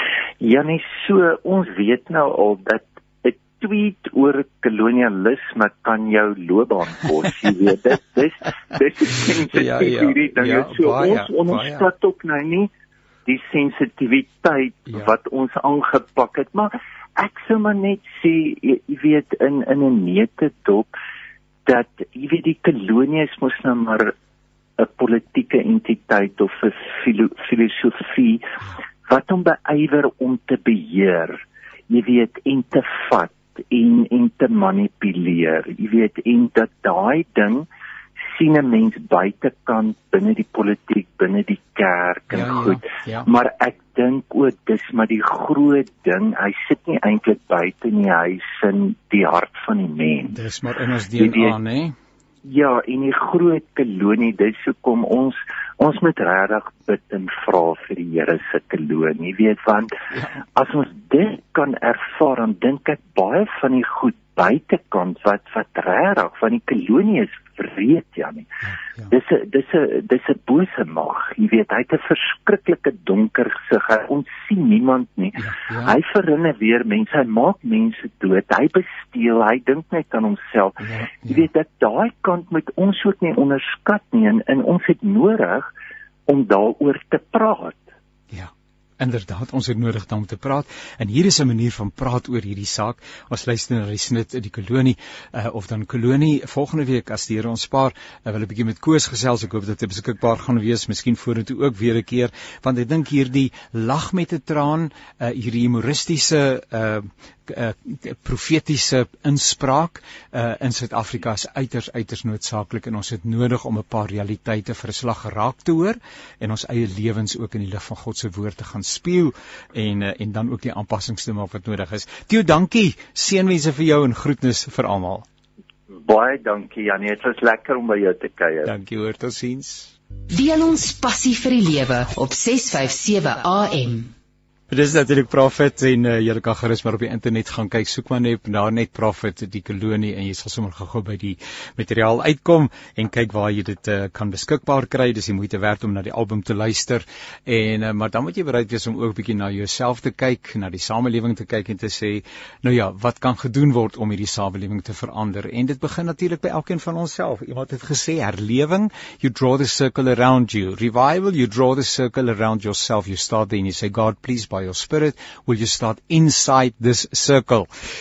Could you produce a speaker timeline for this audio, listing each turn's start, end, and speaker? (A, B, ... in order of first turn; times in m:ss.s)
0:00.4-0:12.7 A
0:09.4-0:11.9 B
0:13.3-0:20.9 A
0:21.6-0:24.1 A
0:24.8-0:37.7 A
0:38.3-0:50.4 A
0:42.3-0:43.3 B
0:50.3-0:52.0 B
0:51.2-0:51.6 A
0:52.4-1:00.0 A
1:00.6-1:08.5 A
1:09.1-1:25.7 A
1:15.4-1:16.0 B
1:20.8-1:21.5 B
1:26.3-1:27.8 A
1:28.3-2:05.2 B
2:05.9-2:08.7 A
2:08.6-2:09.9 B
2:10.3-2:14.1 C
2:14.7-2:47.7 B